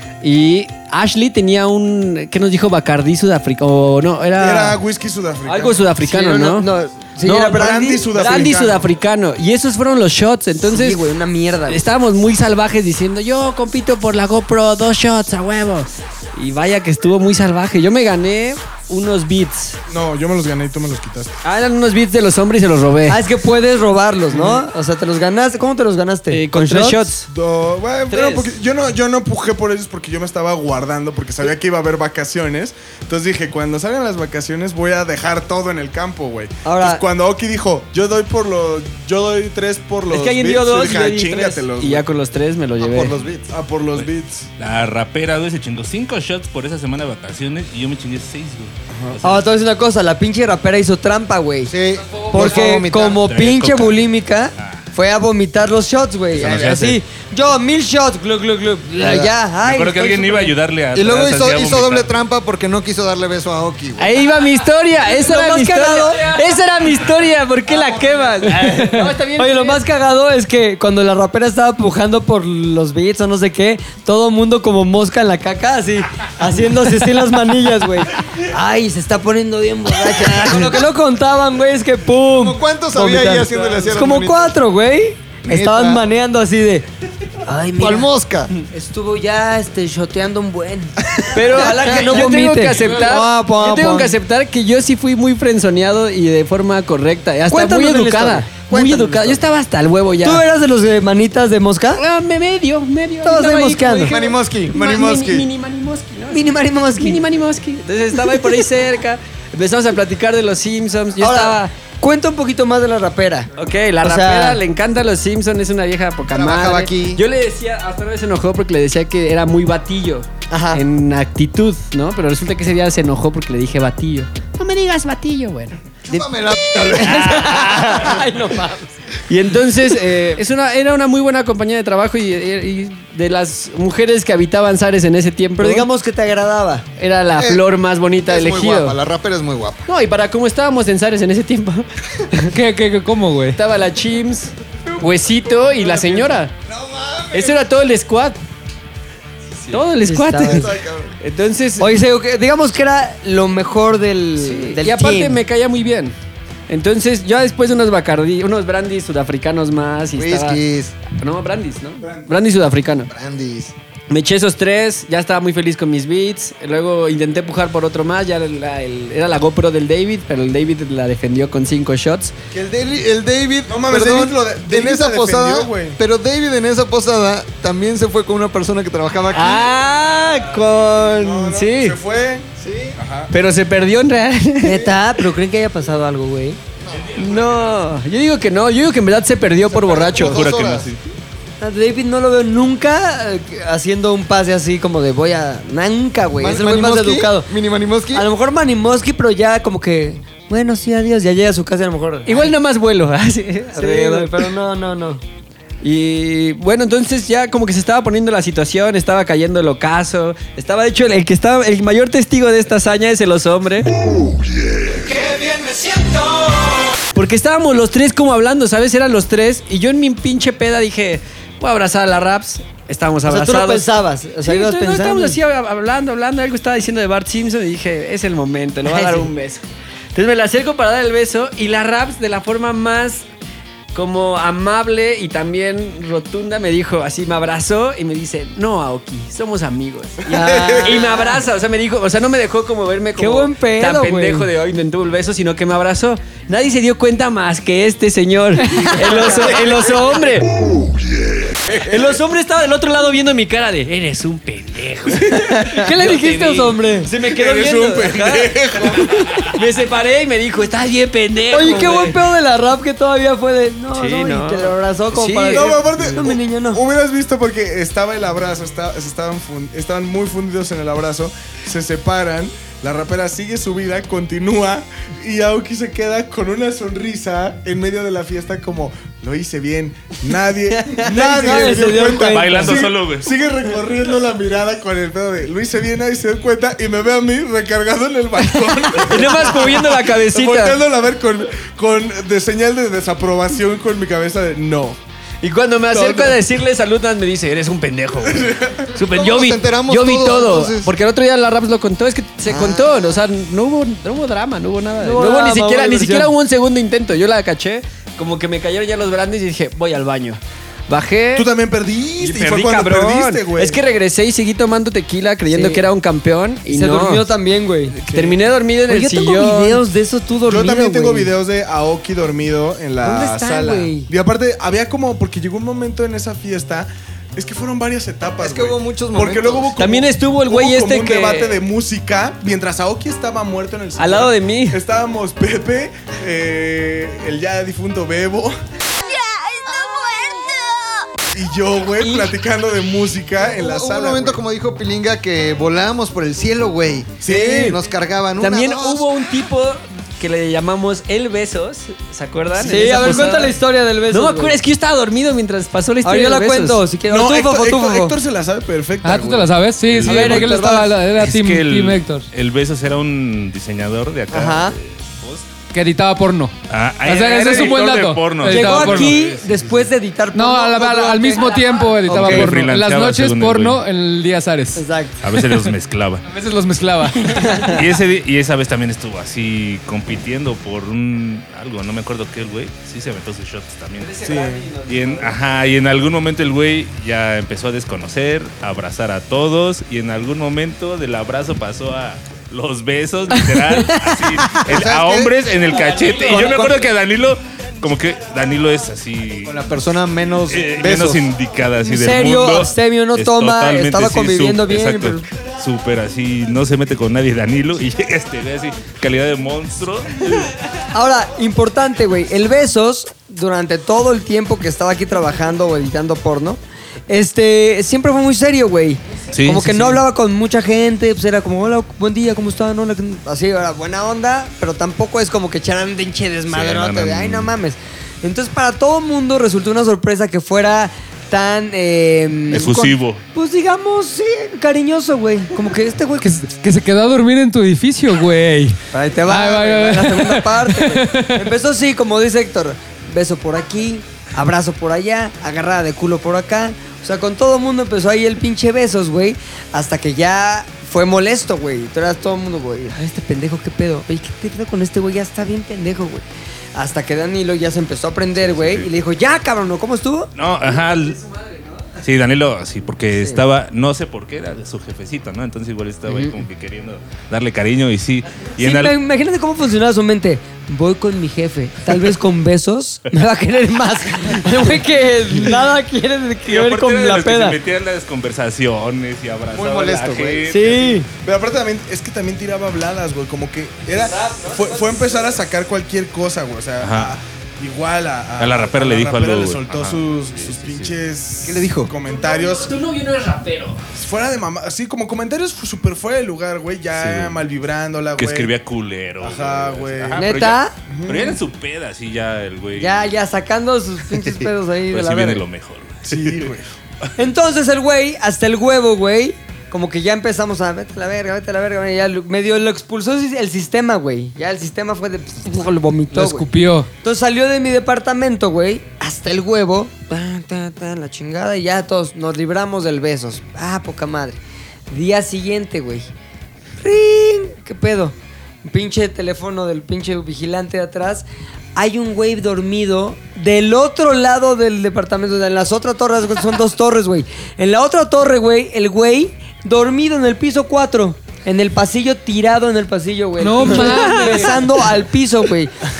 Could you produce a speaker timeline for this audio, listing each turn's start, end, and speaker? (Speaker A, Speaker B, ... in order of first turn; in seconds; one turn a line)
Speaker A: 0.2-4.8
Speaker B: 4.4-5.9
Speaker A: 5.4-6.7
Speaker C: 6.0-8.2
Speaker A: 7.2-11.0
Speaker B: 7.4-8.9
Speaker C: 10.7-11.8
Speaker A: 11.7-19.8
Speaker B: 19.9-21.3
Speaker A: 21.4-23.2
Speaker C: 23.1-27.0
Speaker B: 24.3-24.6
Speaker A: 26.3-27.3
Speaker B: 27.3-42.0
Speaker A: 28.1-28.5
Speaker C: 36.6-37.0
Speaker A: 40.1-43.1
Speaker D: 42.8-43.5
Speaker B: 43.5-44.5
Speaker E: 44.6-49.4
Speaker C: 49.2-51.7
Speaker D: 51.6-53.2
Speaker C: 52.3-60.5
Speaker E: 53.2-54.0
Speaker E: 54.6-54.8
Speaker E: 56.3-57.0
Speaker D: 59.0-59.3
Speaker E: 59.6-62.1
Speaker D: 60.9-64.2
Speaker A: 64.0-69.8
Speaker C: 65.0-66.4
Speaker D: 67.8-68.1
Speaker C: 68.6-86.9
Speaker D: 80.3-80.8
Speaker D: 82.3-84.6
Speaker B: 83.5-83.8
Speaker D: 85.4-86.0
Speaker C: 87.4-88.1
Speaker D: 87.8-88.5
Speaker C: 88.7-94.1
Speaker A: 91.3-100.4
Speaker C: 97.5-99.3
Speaker C: 100.2-102.0
Speaker A: 101.9-111.7
Speaker C: 103.2-104.1
Speaker D: 104.0-105.5
Speaker C: 106.3-107.2
Speaker C: 111.2-114.6
Speaker A: 113.6-126.0
Speaker D: 116.3-117.2
Speaker C: 120.5-120.8
Speaker D: 126.0-127.7
Speaker A: 126.8-128.3
Speaker C: 126.8-128.9
Speaker A: 129.3-135.8
Speaker C: 135.6-136.8
Speaker A: 137.0-138.9
Speaker D: 137.3-137.6
Speaker D: 138.2-139.8
Speaker A: 139.9-142.5
Speaker F: 142.5-143.6
Speaker A: 143.5-146.5
Speaker D: 146.6-147.7
Speaker A: 147.3-148.4
Speaker A: 149.7-151.9
Speaker C: 150.0-150.7
Speaker D: 150.4-151.1
Speaker C: 151.8-155.4
Speaker A: 154.4-156.1
Speaker A: 156.7-163.1
Speaker D: 160.1-160.9
Speaker B: 162.0-162.3
Speaker D: 163.1-163.7
Speaker A: 164.1-172.3
Speaker D: 172.5-179.7
Speaker B: 173.7-176.0
Speaker A: 179.3-182.0
Speaker B: 181.2-183.3
Speaker D: 182.6-182.9
Speaker A: 183.3-184.9
Speaker C: 184.6-186.6
Speaker D: 186.8-187.1
Speaker E: 186.9-187.9
Speaker A: 187.2-190.4
Speaker D: 189.7-190.9
Speaker E: 190.2-191.0
Speaker C: 191.6-197.5
Speaker D: 196.4-198.3
Speaker C: 198.1-202.5
Speaker A: 202.2-204.5
Speaker C: 203.7-205.2
Speaker A: 205.8-213.9
Speaker A: 215.1-216.6
Speaker A: 217.1-223.9
Speaker C: 223.2-225.4
Speaker A: 224.4-233.2
Speaker C: 228.9-229.3
Speaker A: 233.9-250.6
Speaker C: 240.3-241.3
Speaker C: 243.2-244.5
Speaker C: 248.6-250.1
Speaker A: 251.7-262.2
Speaker C: 255.7-257.1
Speaker B: 257.2-259.5
Speaker C: 261.5-266.8
Speaker A: 263.9-266.2
Speaker B: 265.5-295.0
Speaker A: 280.8-281.8
Speaker C: 281.0-282.9
Speaker E: 282.3-283.3
Speaker A: 288.6-290.8
Speaker A: 295.4-311.5
Speaker B: 295.9-296.4
Speaker B: 298.3-298.9
Speaker D: 299.1-300.9
Speaker D: 302.4-303.2
Speaker C: 305.0-306.3
Speaker B: 311.3-313.8
Speaker A: 312.2-317.3
Speaker C: 315.5-315.9
Speaker C: 316.7-318.1
Speaker A: 317.9-319.8
Speaker C: 318.9-321.3
Speaker B: 320.5-338.5
Speaker C: 323.0-324.1
Speaker D: 328.4-329.8
Speaker A: 329.8-331.6
Speaker A: 334.0-334.8
Speaker D: 339.9-340.4
Speaker B: 341.3-344.4
Speaker A: 342.0-342.3
Speaker D: 343.4-349.1
Speaker B: 347.2-347.8
Speaker A: 347.4-347.7
Speaker A: 348.4-356.9
Speaker C: 352.5-354.6
Speaker C: 356.0-358.1
Speaker B: 357.0-359.7
Speaker F: 359.0-362.2
Speaker E: 359.9-365.4
Speaker C: 360.0-360.9
Speaker C: 364.3-364.8
Speaker F: 365.7-366.5
Speaker E: 366.7-369.8
Speaker F: 367.0-369.2
Speaker C: 368.5-372.5
Speaker F: 370.3-375.7
Speaker E: 372.1-373.8
Speaker C: 374.8-375.2
Speaker E: 375.2-376.2
Speaker F: 376.2-377.8
Speaker E: 377.6-384.2
Speaker A: 384.0-385.4
Speaker B: 384.2-384.6
Speaker E: 384.9-399.6
Speaker C: 393.8-394.4
Speaker D: 394.6-396.8
Speaker A: 395.9-396.6
Speaker D: 399.4-401.2
Speaker E: 400.5-410.5
Speaker C: 401.8-405.2
Speaker C: 410.9-436.3
Speaker E: 419.3-420.0
Speaker E: 426.5-427.5
Speaker E: 432.5-433.2
Speaker F: 436.2-441.5
Speaker C: 438.9-460.3
Speaker E: 458.4-458.9
Speaker E: 460.4-461.2
Speaker A: 460.6-462.0
Speaker E: 462.0-469.0
Speaker C: 466.1-466.4
Speaker C: 468.6-477.6
Speaker E: 476.4-481.0
Speaker D: 479.6-480.4
Speaker C: 480.5-481.1
Speaker B: 481.1-492.8
Speaker A: 483.9-485.4
Speaker E: 486.8-487.1
Speaker E: 488.4-490.9
Speaker D: 491.4-491.9
Speaker A: 492.0-493.9
Speaker B: 493.9-498.5
Speaker E: 496.9-497.4
Speaker E: 498.2-503.1
Speaker B: 499.2-500.3
Speaker C: 500.2-500.7
Speaker B: 500.9-501.4
Speaker C: 502.8-505.4
Speaker E: 504.9-506.5
Speaker B: 506.0-506.7
Speaker C: 507.2-516.5
Speaker F: 516.1-516.9
Speaker C: 517.0-526.1
Speaker C: 526.8-531.2
Speaker C: 531.8-545.7
Speaker F: 543.4-544.6
Speaker A: 543.6-544.6